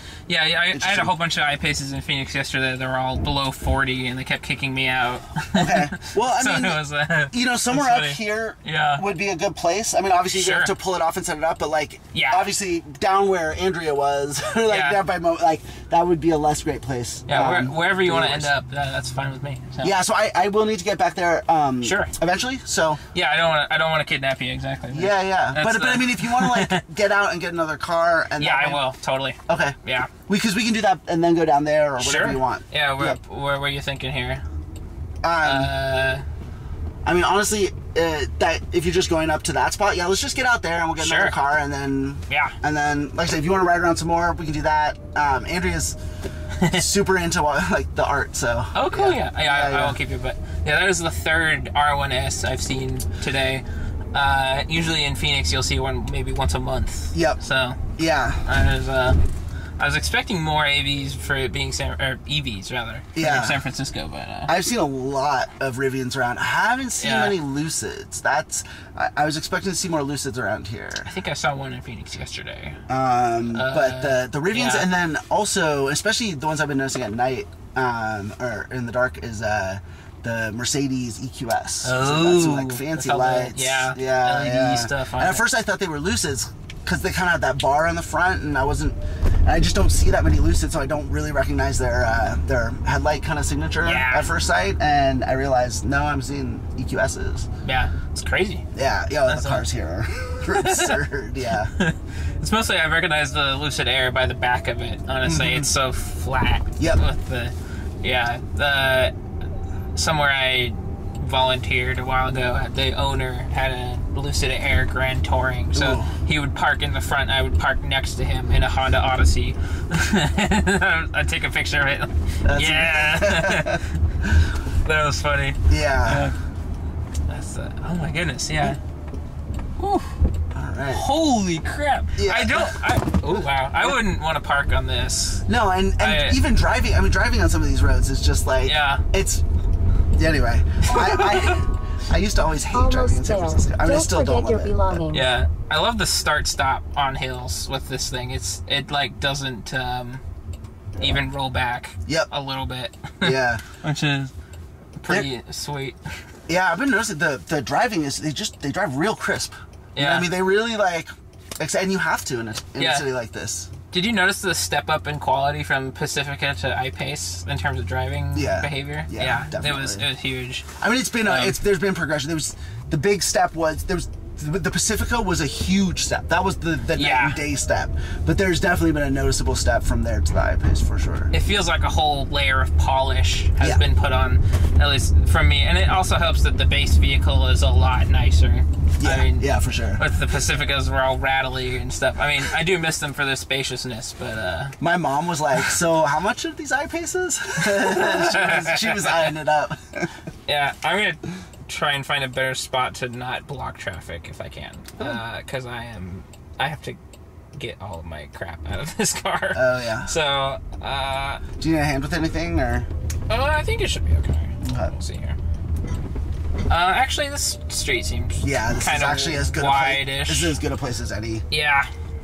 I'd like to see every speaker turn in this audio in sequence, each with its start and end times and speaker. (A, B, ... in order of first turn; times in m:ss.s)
0:00.3-0:09.0 A
0:00.7-0:01.1 B
0:05.6-0:06.8 B
0:07.3-0:18.5 B
0:10.3-0:10.7 A
0:12.1-0:12.5 A
0:14.7-0:15.0 A
0:17.3-0:19.9 A
0:19.8-0:23.0 B
0:21.8-0:22.1 A
0:23.1-0:26.8 A
0:24.9-0:28.9 B
0:28.4-0:30.1 A
0:29.5-0:29.8 B
0:30.3-0:33.2 B
0:32.0-0:34.4 A
0:35.2-0:35.7 B
0:35.4-0:36.2 A
0:37.0-0:46.0 B
0:41.0-0:41.4 A
0:42.3-0:42.6 A
0:46.7-0:50.0 B
0:48.7-0:57.9 A
0:57.1-0:57.4 B
0:58.0-0:58.5 B
0:58.4-0:59.2 A
0:59.8-1:04.5 A
1:03.2-1:03.6 B
1:04.5-1:11.1 B
1:07.0-1:07.4 A
1:11.0-1:12.8 A
1:12.9-1:37.5 B
1:13.5-1:14.9 A
1:21.8-1:25.4 A
1:33.8-1:34.3 A
1:37.6-1:38.6 A
1:38.8-1:41.7 B
1:39.3-1:39.6 A
1:40.4-1:41.0 A
1:41.8-1:49.2 A
1:45.2-1:45.7 B
1:50.0-2:03.9 A
1:55.8-1:56.1 B
2:02.4-2:04.3 B
2:04.8-2:06.4 A
2:05.7-2:06.3 B
2:07.3-2:08.8 A
2:09.8-2:10.2 A
2:10.5-2:11.0 B
2:10.9-2:15.5 A
2:12.2-2:12.8 B
2:15.5-2:19.4 B
2:16.0-2:16.4 A
2:18.6-2:19.0 A
2:20.2-2:25.0 B
2:20.8-2:21.6 A
2:22.7-2:25.3 C
2:25.1-2:30.2 A
2:31.0-2:34.3 A
2:33.2-2:33.6 B
2:35.0-2:36.2 A
2:36.5-2:43.7 B
2:40.0-2:40.3 A
2:42.8-2:43.1 A
2:43.9-2:50.7 A
2:48.3-2:50.0 B
2:50.8-3:01.3 B
2:51.2-2:51.6 A
2:56.9-2:57.4 A
3:01.3-3:14.8 A
3:03.6-3:03.8 B
3:09.0-3:10.0 B
3:14.8-3:20.1 B
3:17.6-3:19.3 A
3:20.5-3:27.0 A
3:27.6-3:31.4 A
3:29.5-3:30.1 B
3:31.6-3:32.9 B
3:33.3-3:35.4 A
3:34.6-3:34.9 B
3:36.7-3:40.6 A
3:38.4-3:41.5 B
3:41.5-3:41.9 A